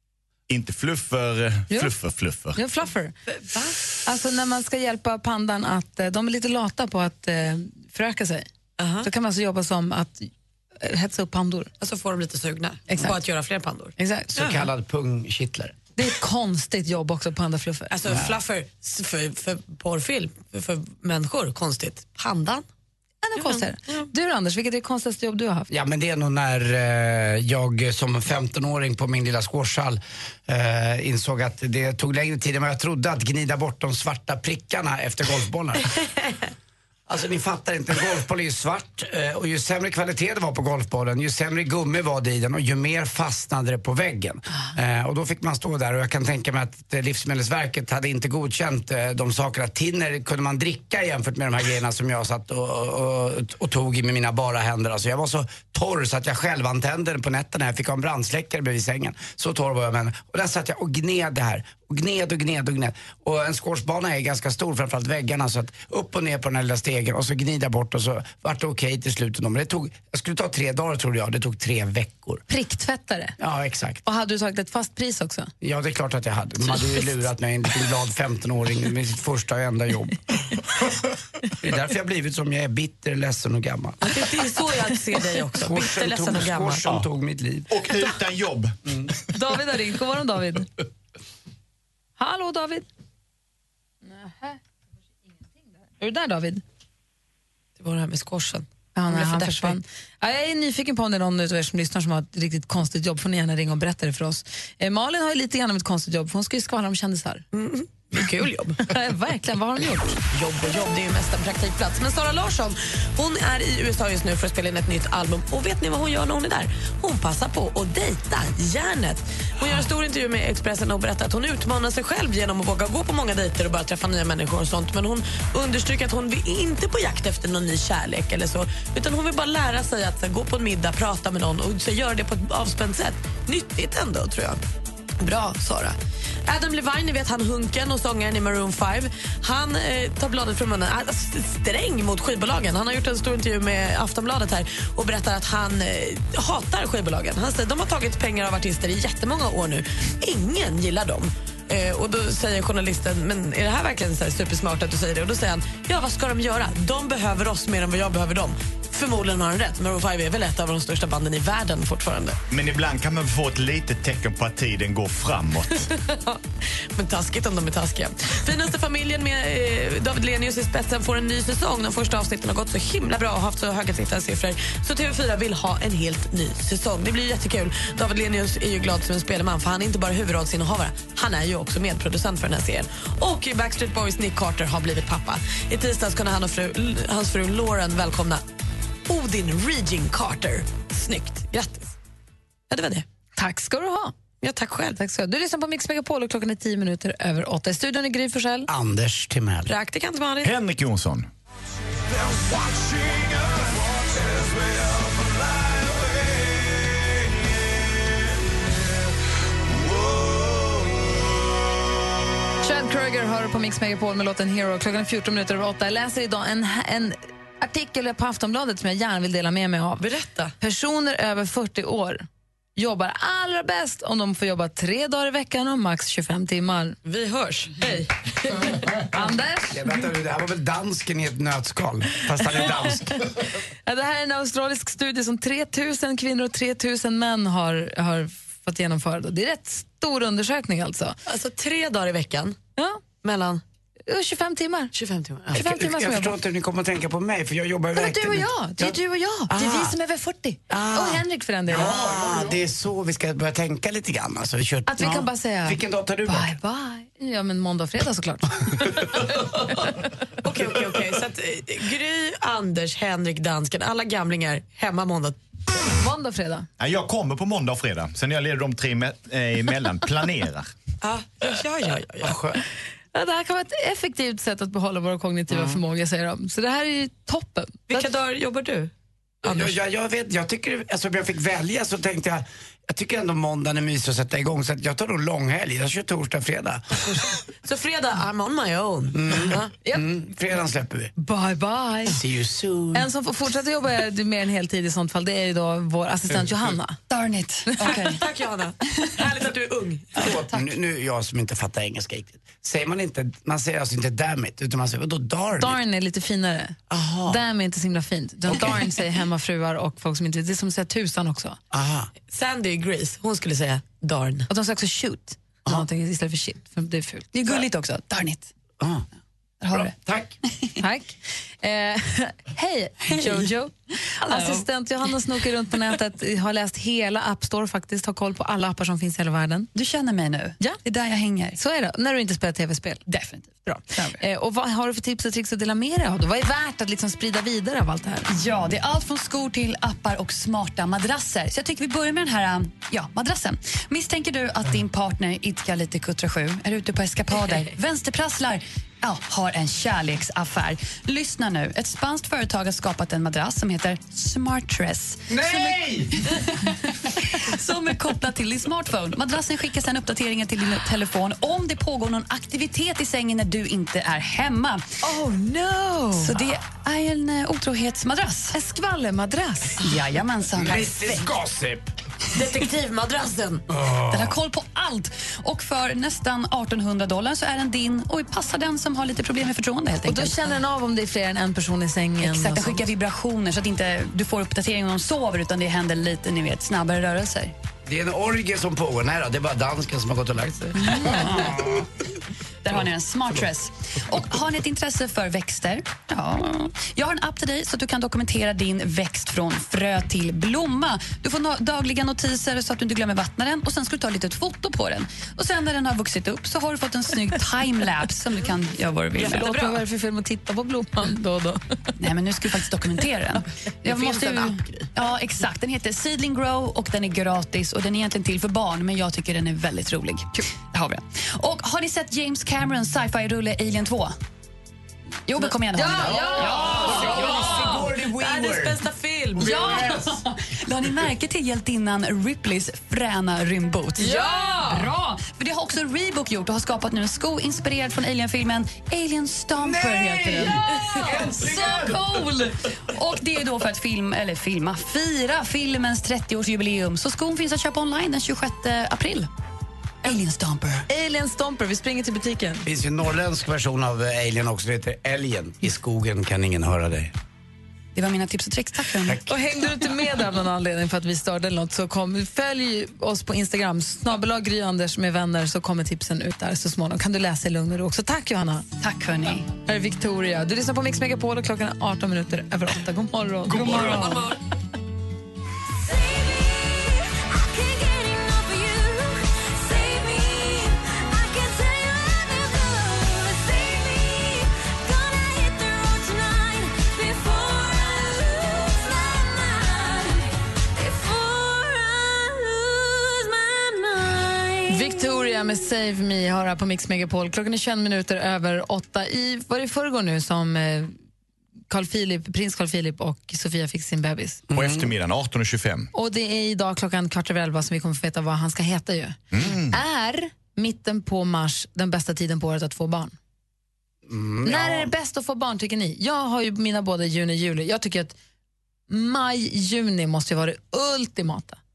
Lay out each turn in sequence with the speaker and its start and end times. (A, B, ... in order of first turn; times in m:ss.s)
0:00.5-0:02.6 A
0:02.5-0:03.2 B
0:03.4-0:03.8 C
0:04.0-0:08.5 B
0:08.8-0:09.1 C
0:09.0-0:11.7 B
0:11.8-0:14.6 C
0:12.9-0:13.2 B
0:14.0-0:14.5 B
0:14.3-0:15.8 D
0:16.0-0:17.9 B
0:17.9-0:22.6 C
0:23.2-0:25.7 B
0:23.4-0:24.1 C
0:25.7-0:35.9 D
0:37.1-1:12.4 D
1:12.5-1:13.4 B
1:13.4-1:14.0 D
1:14.0-1:15.5 B
1:15.6-1:20.2 D
1:21.6-1:24.0 D
1:24.0-1:27.0 C
1:25.6-1:27.7 D
1:27.7-1:28.8 A
1:29.3-1:30.7 B
1:32.2-1:32.8 B
1:34.0-1:34.6 B
1:35.9-1:36.6 B
1:37.8-1:39.8 C
1:38.9-1:47.4 B
1:47.5-1:48.8 C
1:48.9-1:50.2 B
1:50.3-2:14.6 C
2:15.2-2:42.4 C
2:42.5-2:45.9 A
2:45.8-2:46.4 C
2:46.9-3:08.4 C
3:09.1-3:12.0 C
3:12.7-3:13.0 C
3:13.4-3:14.1 B
3:14.4-3:15.0 C
3:14.9-3:18.7 B
3:18.7-3:19.7 D
3:19.6-3:20.5 C
3:20.4-3:21.3 A
3:32.6-3:40.0 B
3:40.0-3:40.5 C
3:40.6-3:47.0 B
3:47.0-3:48.6 C
3:49.1-3:49.8 B
3:49.7-3:53.2 D
3:53.8-4:01.2 B
4:01.3-4:02.6 C
4:02.8-4:03.0 B
4:03.2-4:03.6 C
4:04.1-4:04.9 B
4:04.9-4:05.6 C
4:05.5-4:06.3 B
4:05.5-4:09.0 D
4:07.9-4:12.0 B
4:09.5-4:09.9 D
4:10.7-4:16.6 D
4:14.9-4:18.9 B
4:20.4-4:25.4 C
4:26.0-4:26.7 B
4:26.8-4:30.7 A
4:31.0-4:32.4 C
4:32.2-4:32.6 D
4:33.1-4:38.0 B
4:37.9-4:38.9 C
4:39.4-4:46.8 D
4:39.4-4:39.7 C
4:47.1-4:49.7 C
4:49.1-4:51.1 D
4:51.2-4:52.2 B
4:52.0-4:53.1 D
4:52.9-4:57.0 B
4:57.1-4:58.2 E
4:57.8-5:00.3 C
5:00.1-5:05.8 D
5:05.6-5:11.6 B
5:06.9-5:07.4 D
5:08.5-5:08.8 D
5:11.7-5:12.1 D
5:12.3-5:14.5 C
5:14.5-5:17.3 B
5:17.3-5:18.5 E
5:18.8-5:19.0 D
5:19.6-5:20.7 E
5:19.7-5:20.3 D
5:20.8-5:29.7 B
5:24.2-5:24.6 E
5:29.7-5:31.6 E
5:31.6-5:33.0 B
5:33.1-5:34.2 E
5:33.6-5:38.3 B
5:38.3-6:04.8 E
6:05.0-6:06.4 B
6:06.2-6:08.5 E
6:08.5-6:09.9 B
6:09.8-6:11.3 E
6:10.6-6:11.9 D
6:12.3-6:13.6 C
6:13.7-6:14.4 D
6:14.1-6:20.5 E
6:20.0-6:22.9 B
6:22.2-6:27.5 E
6:27.8-6:31.8 D
6:30.8-6:31.6 E
6:32.6-6:49.7 E
6:49.2-6:49.8 C
6:49.2-6:51.6 B
6:52.0-7:04.1 E
6:53.8-6:54.9 C
7:05.3-7:07.6 E
7:05.7-7:07.9 B
7:05.9-7:08.8 D
7:06.6-7:09.8 C
7:09.4-7:21.9 E
7:09.5-7:09.9 D
7:14.0-7:14.9 B
7:20.4-7:22.5 B
7:22.9-7:29.3 E
7:30.0-7:30.9 E
7:30.9-7:32.6 B
7:32.6-7:37.1 D
7:37.9-7:39.2 E
7:39.2-7:48.6 B
7:48.8-7:49.5 E
7:49.6-7:54.2 B
7:53.5-7:54.4 C
7:55.8-8:15.0 F
8:14.7-8:21.0 B
8:21.7-8:24.4 B
8:24.5-8:24.8 D
8:24.5-8:25.9 A
8:25.9-8:33.2 B
8:29.3-8:29.8 A
8:34.1-8:34.9 D
8:34.4-8:38.2 B
8:38.9-8:41.6 B